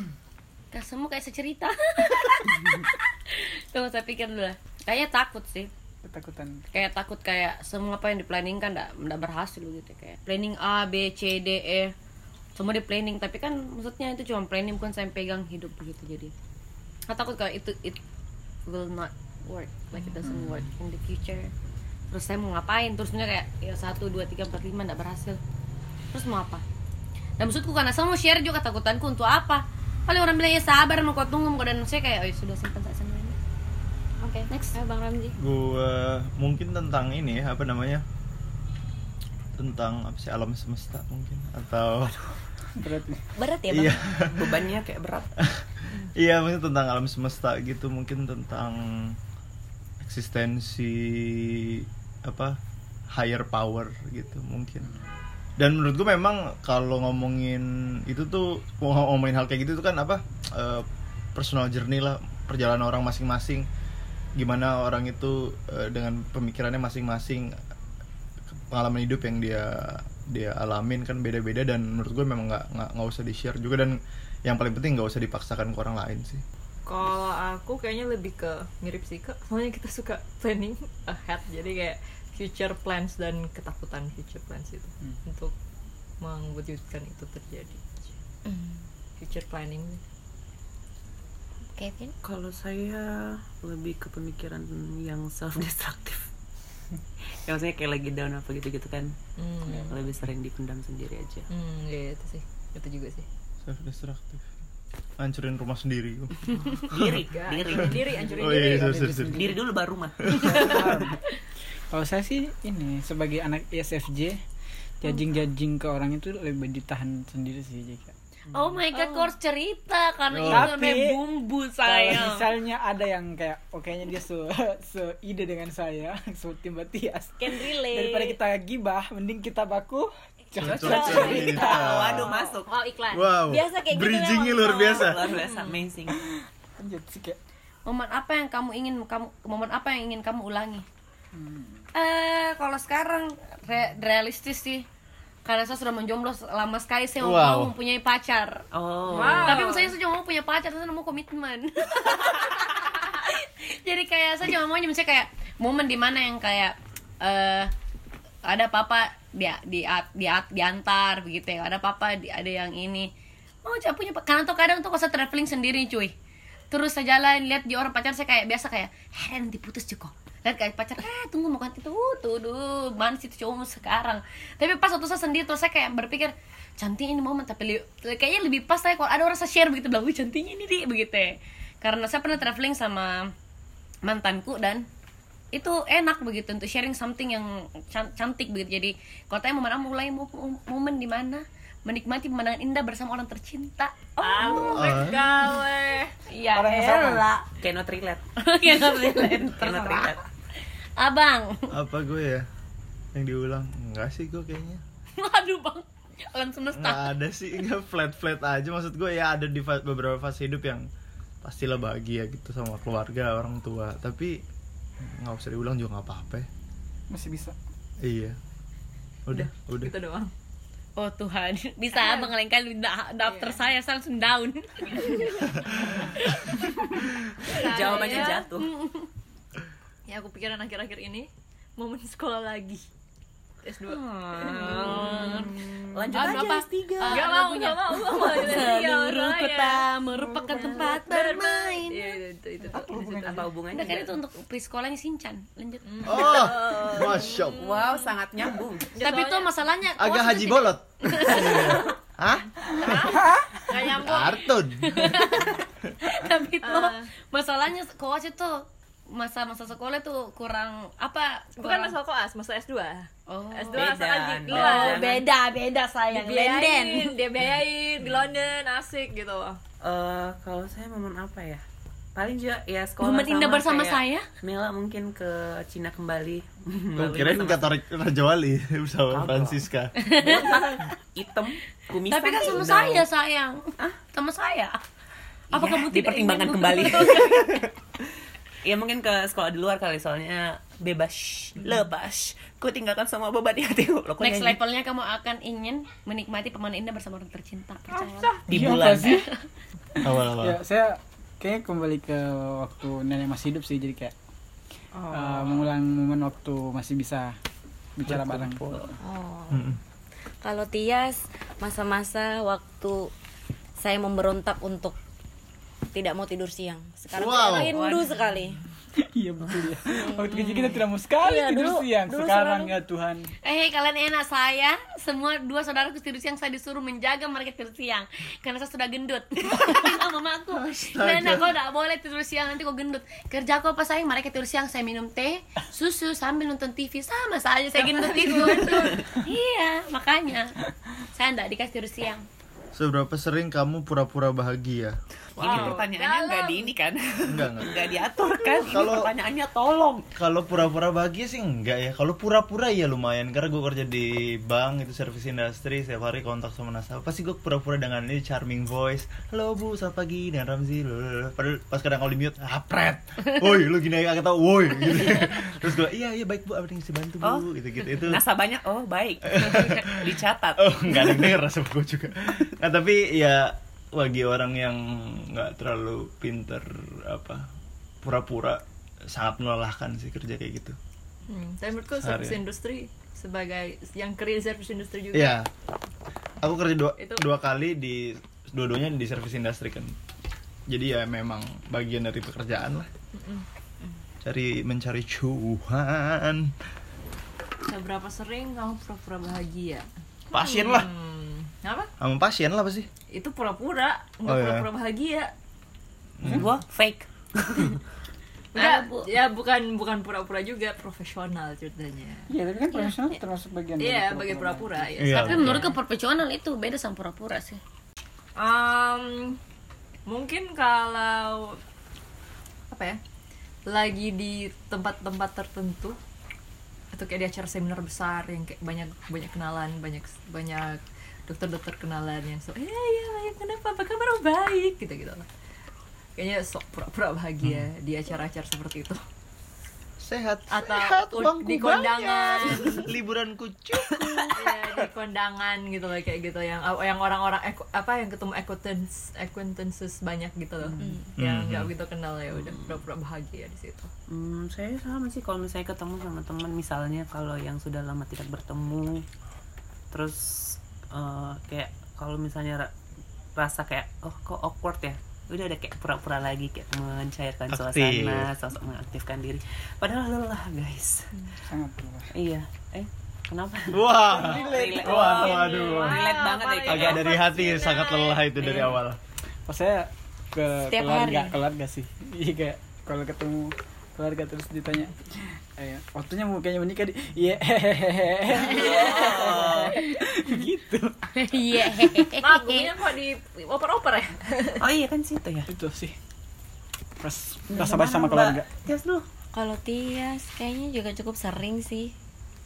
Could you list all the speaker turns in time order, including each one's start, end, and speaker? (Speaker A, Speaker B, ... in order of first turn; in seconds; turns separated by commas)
Speaker A: 0.7-5.7, Speaker B: 6.0-6.7, Speaker A: 6.7-11.9, Speaker A: 12.6-16.3, Speaker A: 17.1-18.0, Speaker A: 18.7-21.5, Speaker B: 20.2-20.7, Speaker A: 22.1-25.4, Speaker A: 26.1-26.6, Speaker A: 27.4-33.4, Speaker C: 34.2-35.4, Speaker A: 34.5-34.8, Speaker D: 35.4-38.0, Speaker D: 39.6-42.3, Speaker B: 42.8-43.2, Speaker C: 43.4-44.0, Speaker D: 43.7-44.7, Speaker E: 44.3-45.3, Speaker D: 45.4-49.2, Speaker D: 50.0-52.6, Speaker D: 53.1-54.9, Speaker D: 55.6-63.7, Speaker D: 64.3-67.6, Speaker D: 68.5-76.4, Speaker F: 76.8-85.5, Speaker F: 86.2-88.1, Speaker C: 88.4-88.8, Speaker F: 89.2-90.0, Speaker C: 91.7-92.1, Speaker E: 92.2-96.3, Speaker E: 97.4-99.1, Speaker F: 99.4-100.0, Speaker E: 99.7-101.5, Speaker F: 101.5-103.2, Speaker D: 103.6-104.4, Speaker D: 105.2-107.2, Speaker E: 106.9-108.2, Speaker F: 107.3-109.1, Speaker B: 108.2-109.6, Speaker D: 108.3-109.5, Speaker E: 109.2-110.9, Speaker D: 110.2-110.6, Speaker B: 110.4-111.2, Speaker A: 110.5-110.8, Speaker B: 111.9-114.4, Speaker B: 115.0-118.1, Speaker A: 118.5-122.5, Speaker E: 118.5-118.8, Speaker D: 120.3-120.7, Speaker B: 120.5-121.2, Speaker B: 121.8-131.7, Speaker C: 127.4-128.4, Speaker D: 130.6-132.3, Speaker E: 130.6-132.7, Speaker F: 130.9-133.3, Speaker D: 133.1-135.3, Speaker C: 133.5-135.1, Speaker E: 134.7-136.2, Speaker F: 135.3-135.8, Speaker B: 136.1-137.4, Speaker A: 137.8-140.8, Speaker B: 141.3-141.8, Speaker A: 141.9-144.8, Speaker A: 145.4-157.7, Speaker D: 147.2-147.7, Speaker E: 148.7-149.6, Speaker F: 149.1-149.9, Speaker A: 158.4-163.1, Speaker A: 163.6-166.1, Speaker A: 166.7-183.3, Speaker A: 184.0-184.8, Speaker A: 185.5-195.1, Speaker F: 194.2-196.1, Speaker D: 194.5-195.3, Speaker A: 196.3-197.4, Speaker B: 196.5-197.2, Speaker E: 197.6-200.2, Speaker A: 198.4-200.2, Speaker A: 201.0-201.7, Speaker D: 201.7-202.4, Speaker D: 203.1-204.8, Speaker A: 205.2-207.2, Speaker D: 206.7-210.9, Speaker D: 211.4-214.4, Speaker D: 215.0-216.5, Speaker B: 217.1-217.6, Speaker D: 218.0-218.4, Speaker D: 219.2-219.9, Speaker F: 219.3-220.3, Speaker A: 221.0-227.0, Speaker F: 221.9-222.3, Speaker F: 223.2-223.6, Speaker F: 227.4-228.4, Speaker E: 227.5-228.7, Speaker A: 227.5-229.1, Speaker F: 230.1-232.8, Speaker F: 233.6-235.4, Speaker A: 233.9-242.2, Speaker E: 234.4-237.2, Speaker F: 237.1-239.9, Speaker B: 240.3-240.8, Speaker F: 240.5-243.5, Speaker B: 242.7-243.4, Speaker E: 243.1-244.1, Speaker A: 243.7-247.2, Speaker F: 245.8-247.6, Speaker D: 246.0-247.7, Speaker E: 246.6-248.9, Speaker F: 248.9-249.5, Speaker A: 249.0-251.9, Speaker D: 250.0-253.0, Speaker A: 252.8-262.0, Speaker B: 253.1-253.6, Speaker D: 253.8-255.5, Speaker F: 256.6-257.1, Speaker F: 261.6-265.1, Speaker A: 263.3-263.9, Speaker E: 263.7-265.2, Speaker A: 264.5-267.2, Speaker F: 266.1-269.6, Speaker E: 269.8-271.6, Speaker E: 272.1-277.7, Speaker A: 273.0-274.2, Speaker D: 276.9-279.9, Speaker E: 279.1-283.1, Speaker A: 280.0-280.9, Speaker A: 282.1-284.8, Speaker A: 285.5-287.6, Speaker E: 285.5-287.7, Speaker E: 288.6-294.6, Speaker A: 294.2-299.4, Speaker F: 297.9-298.4, Speaker B: 298.5-299.3, Speaker E: 298.5-299.2, Speaker D: 300.0-300.6, Speaker B: 300.2-304.1, Speaker B: 305.1-307.3, Speaker B: 308.0-308.9, Speaker E: 308.1-308.9, Speaker C: 309.0-309.8, Speaker D: 309.5-309.8, Speaker C: 310.4-313.1, Speaker C: 313.8-315.0, Speaker C: 315.9-318.6, Speaker D: 317.1-317.7, Speaker E: 317.7-318.1, Speaker B: 319.0-323.3, Speaker C: 319.9-320.6, Speaker C: 321.3-322.6, Speaker A: 321.3-322.4, Speaker A: 323.4-340.6, Speaker D: 330.6-331.5, Speaker F: 337.8-339.0, Speaker E: 338.4-339.0, Speaker A: 341.1-342.2, Speaker D: 342.7-345.8, Speaker F: 345.4-346.7, Speaker E: 345.4-350.1, Speaker D: 347.3-347.8, Speaker D: 348.6-349.1, Speaker D: 350.1-368.2, Speaker E: 367.2-371.2, Speaker D: 369.3-377.5, Speaker D: 378.0-380.8, Speaker F: 381.3-385.4, Speaker D: 381.9-382.4, Speaker D: 385.1-385.5, Speaker D: 386.4-389.9, Speaker F: 387.0-387.2, Speaker D: 390.7-392.9, Speaker F: 393.1-393.4, Speaker D: 394.2-396.5, Speaker F: 397.7-399.9, Speaker D: 400.3-400.9, Speaker F: 400.4-401.9, Speaker D: 402.0-402.9, Speaker F: 403.1-405.3, Speaker D: 404.2-404.7, Speaker D: 406.2-406.5, Speaker E: 406.2-407.8, Speaker F: 408.5-412.9, Speaker A: 408.6-409.1, Speaker B: 412.3-415.0, Speaker F: 413.8-415.8, Speaker D: 415.0-415.7, Speaker A: 415.1-417.6, Speaker F: 418.4-419.4, Speaker F: 420.1-421.6, Speaker F: 422.7-423.0, Speaker F: 423.6-426.0, Speaker F: 426.9-435.3, Speaker F: 436.1-439.0, Speaker D: 440.0-444.4, Speaker F: 440.5-442.9, Speaker F: 444.3-453.9, Speaker E: 450.6-451.0, Speaker C: 450.8-451.1, Speaker D: 451.2-451.7, Speaker E: 452.4-452.8, Speaker E: 454.1-459.0, Speaker E: 459.9-462.7, Speaker E: 463.4-471.1, Speaker D: 467.5-468.3, Speaker B: 471.4-472.1, Speaker E: 472.1-477.2, Speaker D: 473.7-476.0, Speaker B: 474.0-475.2, Speaker F: 474.2-478.5, Speaker D: 476.6-479.0, Speaker E: 478.4-478.8, Speaker B: 479.5-491.0, Speaker C: 480.7-481.4, Speaker E: 488.5-489.7, Speaker A: 491.1-492.7, Speaker F: 492.2-494.6, Speaker E: 494.6-495.5, Speaker B: 495.5-495.9, Speaker B: 497.0-498.5, Speaker E: 497.5-499.1, Speaker C: 499.3-501.9